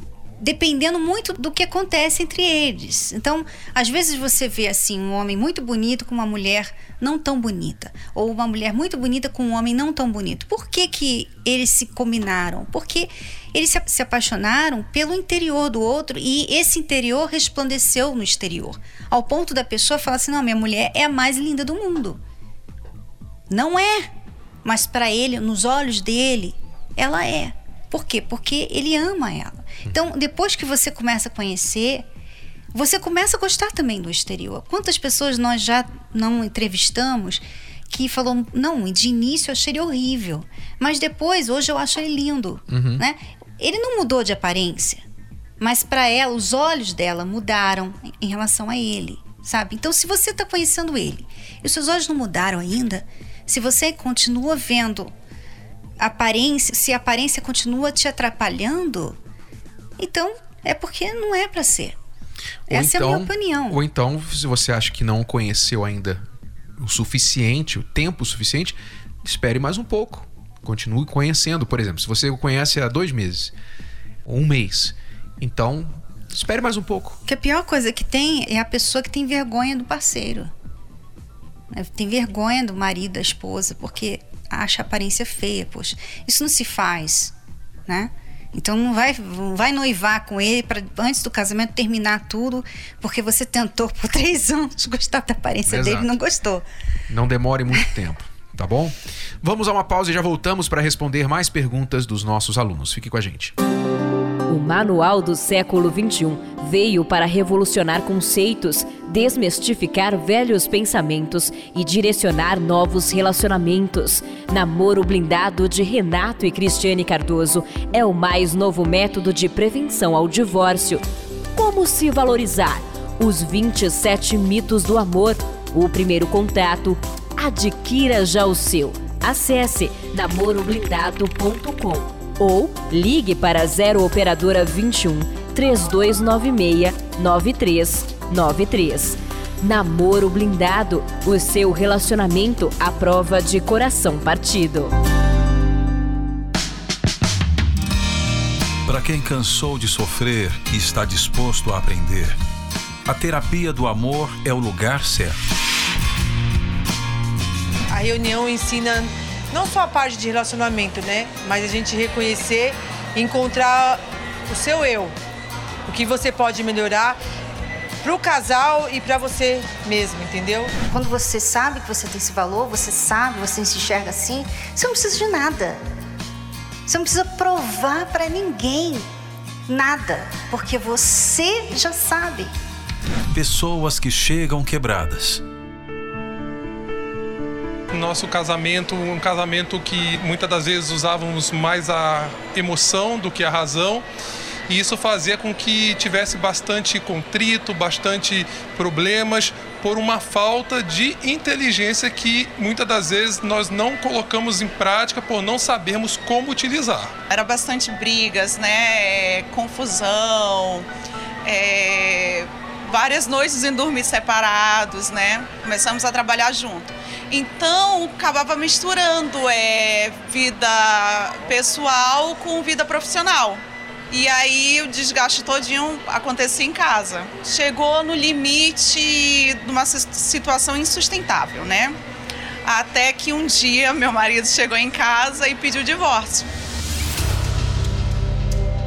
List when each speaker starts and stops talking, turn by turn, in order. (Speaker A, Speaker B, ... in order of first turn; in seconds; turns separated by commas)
Speaker A: 0.4-22.2, Speaker A: 23.5-24.1, Speaker A: 24.6-32.0, Speaker A: 32.7-45.0, Speaker B: 42.7-43.0, Speaker A: 45.6-55.1, Speaker A: 56.0-59.2, Speaker A: 60.0-62.0, Speaker B: 62.7-66.2, Speaker A: 62.7-63.8, Speaker B: 66.8-73.5, Speaker B: 74.2-77.2, Speaker A: 77.2-80.5, Speaker A: 81.7-87.3, Speaker A: 87.9-96.7, Speaker B: 95.7-96.1, Speaker B: 97.1-103.5, Speaker C: 104.5-121.0, Speaker C: 121.5-144.9, Speaker D: 148.8-152.4, Speaker D: 153.1-155.4, Speaker E: 157.9-165.1, Speaker E: 165.8-167.2, Speaker E: 168.0-170.7, Speaker A: 170.9-175.8, Speaker A: 176.9-179.1, Speaker A: 179.7-182.5, Speaker D: 183.3-185.4, Speaker F: 187.9-194.0, Speaker F: 194.7-207.1, Speaker G: 207.3-210.8, Speaker G: 211.4-231.9, Speaker G: 232.7-236.4